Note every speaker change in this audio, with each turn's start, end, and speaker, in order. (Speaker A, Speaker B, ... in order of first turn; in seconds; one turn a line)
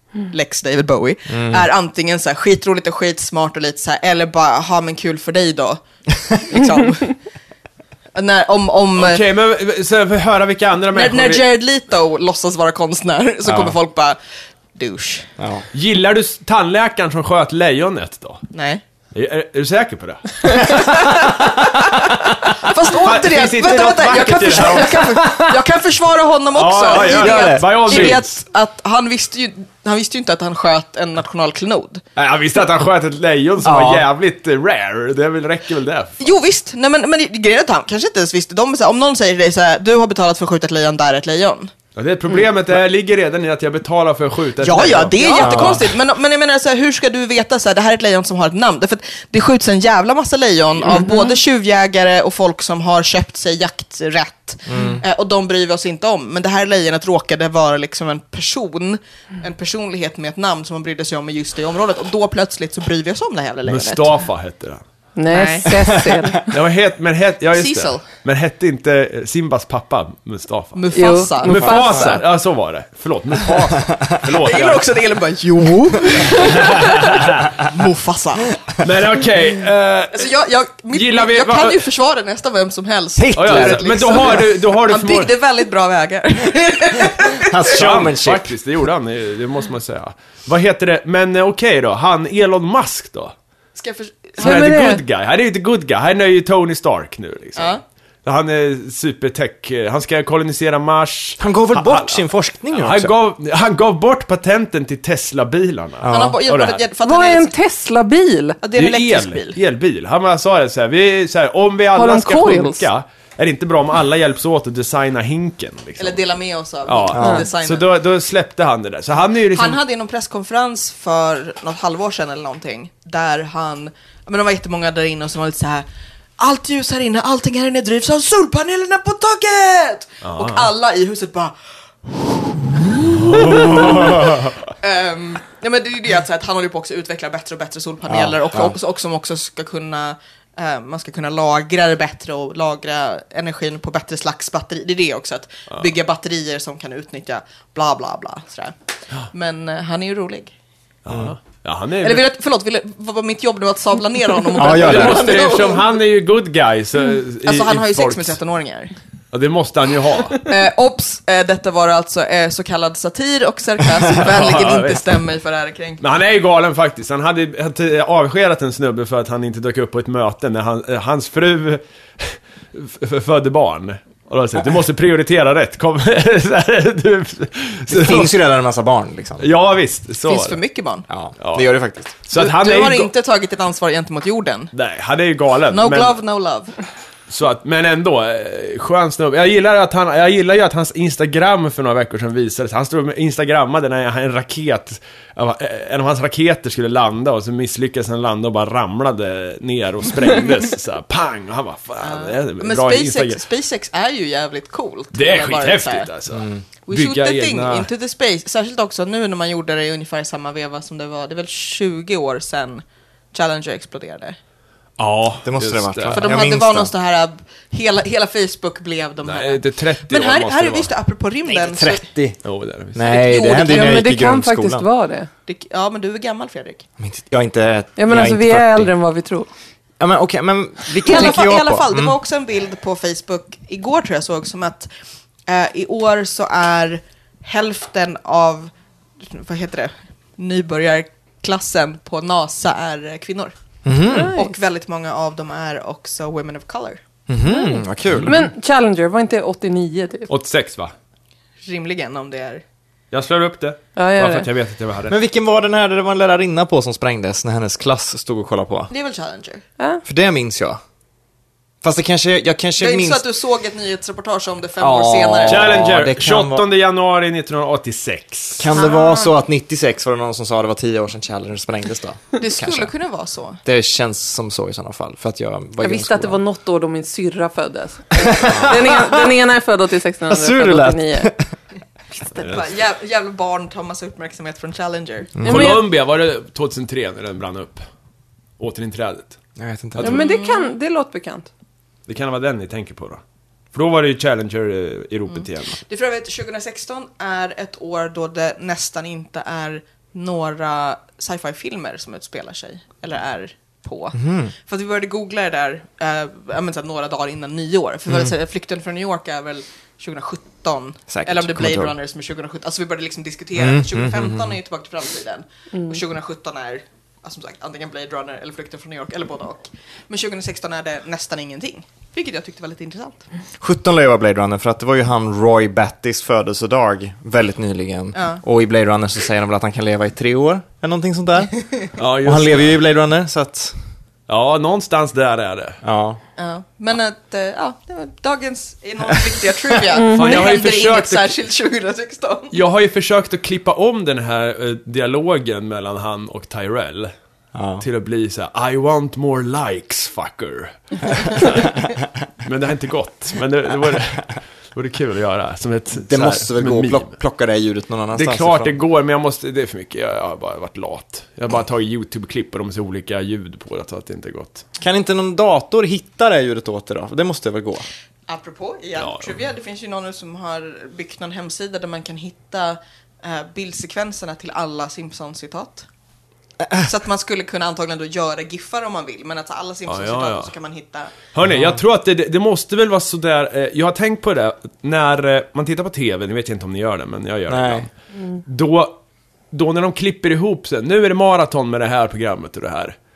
Speaker A: 0.3-7.1
Speaker B: 1.3-1.7
Speaker A: 8.1-9.2
Speaker C: 9.0-11.4
Speaker A: 10.9-14.2
Speaker B: 13.5-13.7
Speaker A: 14.7-15.3
Speaker B: 15.4-15.7
Speaker C: 15.7-18.4
Speaker A: 18.5-18.8
Speaker C: 19.1-21.1
Speaker B: 20.6-21.3
Speaker A: 22.4-32.0
Speaker C: 22.8-25.4
Speaker C: 26.5-28.4
Speaker B: 27.0-28.2
Speaker C: 32.1-36.2
Speaker B: 33.6-34.1
Speaker A: 36.2-41.7
Speaker C: 41.9-45.8
Speaker A: 44.6-64.1
Speaker B: 45.4-45.8
Speaker D: 50.9-51.3
Speaker B: 54.7-55.0
Speaker C: 63.7-64.8
Speaker D: 65.2-66.5
Speaker A: 65.3-65.7
Speaker B: 65.8-66.3
Speaker C: 66.4-70.9
Speaker A: 67.5-68.0
Speaker A: 70.7-71.9
Speaker D: 70.9-72.2
Speaker C: 71.4-74.8
Speaker A: 74.3-78.6
Speaker C: 76.2-77.5
Speaker C: 78.8-80.3
Speaker A: 80.1-87.7
Speaker C: 80.9-81.8
Speaker B: 83.2-84.4
Speaker C: 83.3-85.3
Speaker B: 87.3-88.5
Speaker C: 87.7-93.3
Speaker A: 93.8-94.7
Speaker C: 94.4-102.2
Speaker D: 94.4-95.0
Speaker A: 97.5-97.8
Speaker B: 101.4-103.1
Speaker C: 102.7-106.8
Speaker B: 106.0-106.4
Speaker A: 106.1-107.5
Speaker D: 107.0-108.6
Speaker A: 108.6-109.6
Speaker C: 108.8-116.2
Speaker D: 111.9-112.8
Speaker A: 116.0-117.8
Speaker C: 116.8-119.8
Speaker B: 117.1-117.4
Speaker A: 119.5-125.8
Speaker A: 126.4-132.3
Speaker C: 130.2-130.7
Speaker A: 133.1-148.7
Speaker C: 133.2-134.4
Speaker B: 138.1-138.7
Speaker A: 149.3-150.5
Speaker C: 151.0-152.2
Speaker A: 152.0-155.9
Speaker B: 154.6-155.4
Speaker C: 154.6-158.4
Speaker A: 157.4-158.9
Speaker C: 159.3-160.5
Speaker A: 160.4-166.0
Speaker C: 164.2-165.2
Speaker C: 166.0-178.3
Speaker B: 177.9-179.5
Speaker C: 179.4-180.6
Speaker A: 180.2-181.0
Speaker B: 181.1-182.2
Speaker C: 181.4-183.1
Speaker A: 182.3-184.7
Speaker C: 184.7-186.2
Speaker A: 185.7-186.7
Speaker C: 187.3-203.4
Speaker A: 202.0-206.1
Speaker C: 205.1-207.9
Speaker B: 206.3-206.6
Speaker A: 206.9-214.4
Speaker C: 215.0-216.3
Speaker B: 215.4-216.9
Speaker A: 216.1-222.1
Speaker C: 219.2-220.9
Speaker B: 221.5-222.4
Speaker C: 222.4-223.2
Speaker B: 222.9-224.9
Speaker A: 223.1-224.1
Speaker D: 223.4-225.3
Speaker A: 225.4-226.8
Speaker B: 227.0-228.9
Speaker D: 228.0-229.5
Speaker B: 230.0-232.1
Speaker A: 231.0-234.9
Speaker A: 235.5-243.5
Speaker B: 243.8-244.3
Speaker D: 244.1-244.5
Speaker A: 244.2-247.0
Speaker B: 247.3-248.4
Speaker D: 247.4-250.3
Speaker C: 250.3-250.9
Speaker A: 251.6-252.6
Speaker C: 253.1-255.2
Speaker D: 253.9-254.5
Speaker B: 255.1-258.9
Speaker A: 258.9-259.6
Speaker B: 260.0-260.8
Speaker B: 261.8-263.2
Speaker A: 262.8-265.9
Speaker B: 264.8-266.6
Speaker C: 265.4-268.7
Speaker B: 268.6-272.9
Speaker D: 268.8-269.2
Speaker A: 272.4-273.6
Speaker B: 273.6-276.4
Speaker D: 275.8-281.3
Speaker B: 278.2-279.3
Speaker B: 280.3-281.4
Speaker A: 282.2-285.3
Speaker C: 282.4-282.6
Speaker B: 285.4-285.8
Speaker C: 285.4-287.8
Speaker D: 285.4-285.8
Speaker C: 288.6-289.4
Speaker B: 289.6-290.2
Speaker D: 290.0-291.5
Speaker A: 290.0-290.7
Speaker C: 292.1-293.2
Speaker C: 293.7-295.8
Speaker A: 295.3-323.2
Speaker B: 304.1-304.5
Speaker B: 308.1-308.3
Speaker B: 311.1-311.9
Speaker B: 313.6-314.6
Speaker B: 323.6-331.6
Speaker A: 328.1-328.4
Speaker C: 332.0-332.8
Speaker B: 332.2-333.8
Speaker C: 334.3-335.8
Speaker B: 335.8-336.2
Speaker A: 336.4-342.5
Speaker D: 339.9-340.4
Speaker C: 340.0-341.4
Speaker C: 342.5-347.1
Speaker B: 347.5-347.8
Speaker C: 347.8-351.8
Speaker C: 352.4-357.1
Speaker B: 355.9-358.7
Speaker C: 358.1-364.6
Speaker B: 364.8-367.8
Speaker A: 368.3-375.9
Speaker C: 369.0-369.3
Speaker A: 376.8-381.1
Speaker C: 379.9-380.5
Speaker C: 381.3-387.9
Speaker B: 381.5-381.8
Speaker B: 387.5-387.9
Speaker C: 388.4-388.9
Speaker C: 389.5-392.9